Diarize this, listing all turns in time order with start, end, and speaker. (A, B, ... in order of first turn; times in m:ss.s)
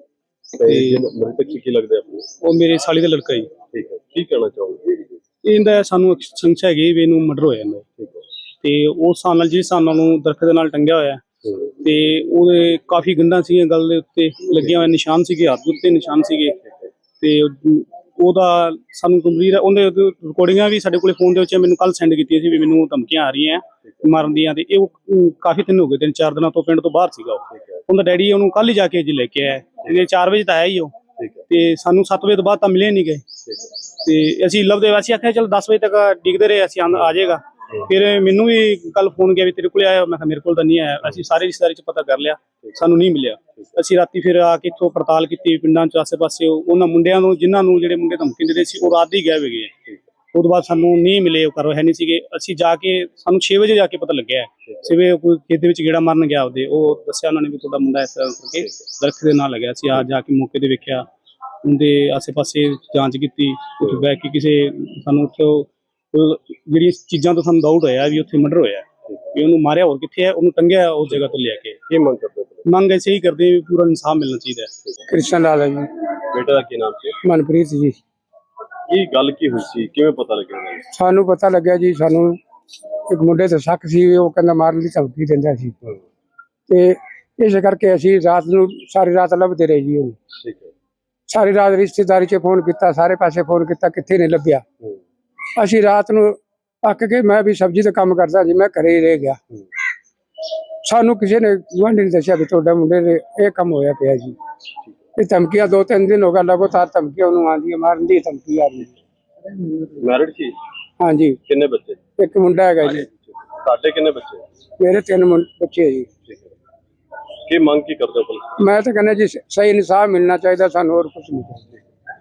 0:00.6-0:02.3 A
0:00.6-0:01.0 B
0:02.4-0:03.5 B
0:03.7-0:05.2 A
0:05.4-0:07.8 B
0:08.0-0:08.2 A
0:08.6-0:11.2 B
0:11.8-0:16.6 B
0:17.2-0:31.0 B
0:31.5-0:33.2 B
0:34.0-1:01.1 B
1:01.6-1:11.8 B
1:11.9-1:12.6 A
1:12.7-1:14.7 B
1:15.1-1:15.9 C
1:16.3-1:17.2 A
1:17.2-1:18.0 C
1:18.9-1:20.8 A
1:20.9-1:22.4 C
1:23.1-1:25.8 C
1:26.7-1:30.2 C
1:30.3-1:30.7 A
1:31.3-1:34.6 C
1:35.6-1:39.4 C
1:40.8-1:44.3 C
1:45.2-1:48.9 C
1:50.0-1:50.6 A
1:51.0-1:51.4 C
1:51.5-1:52.0 A
1:52.2-1:53.1 C
1:52.8-1:54.4 A
1:54.8-1:56.1 C
1:56.3-1:56.5 A
1:57.4-1:58.5 A
1:58.6-2:01.7 C